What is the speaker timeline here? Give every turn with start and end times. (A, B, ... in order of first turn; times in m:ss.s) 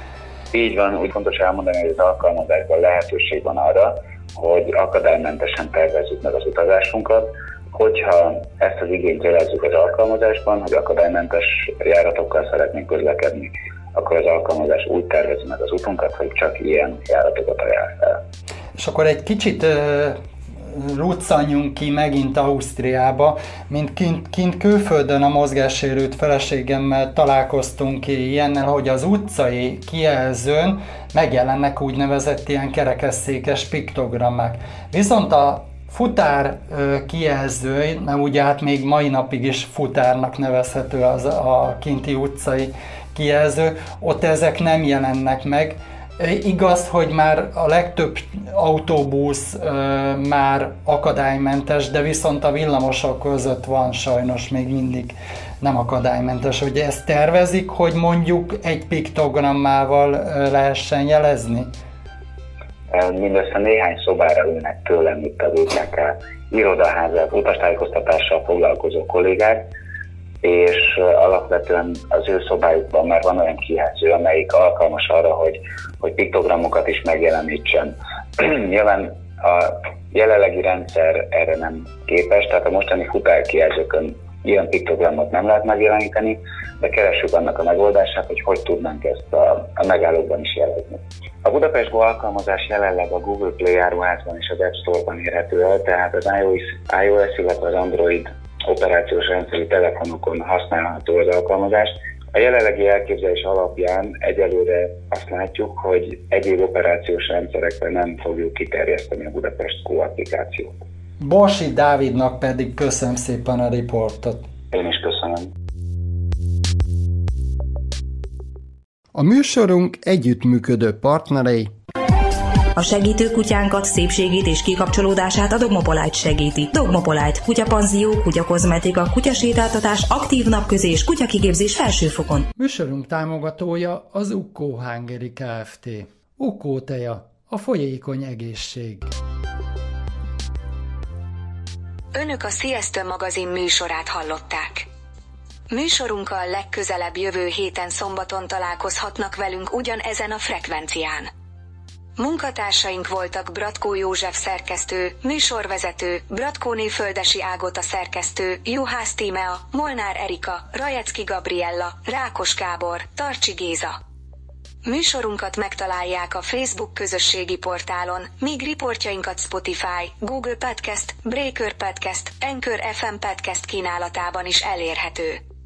0:00.5-0:18.2 A
0:18.8-1:01.7 B
1:02.9-1:09.7 A
1:10.4-1:50.7 A
1:51.2-1:54.4 B
1:54.7-1:55.5 A
1:59.1-2:01.7 B
2:02.8-2:12.5 C
2:12.6-2:19.1 B
2:22.1-2:24.9 D
2:25.7-2:31.3 D
2:32.2-2:43.9 D
2:44.8-2:55.4 D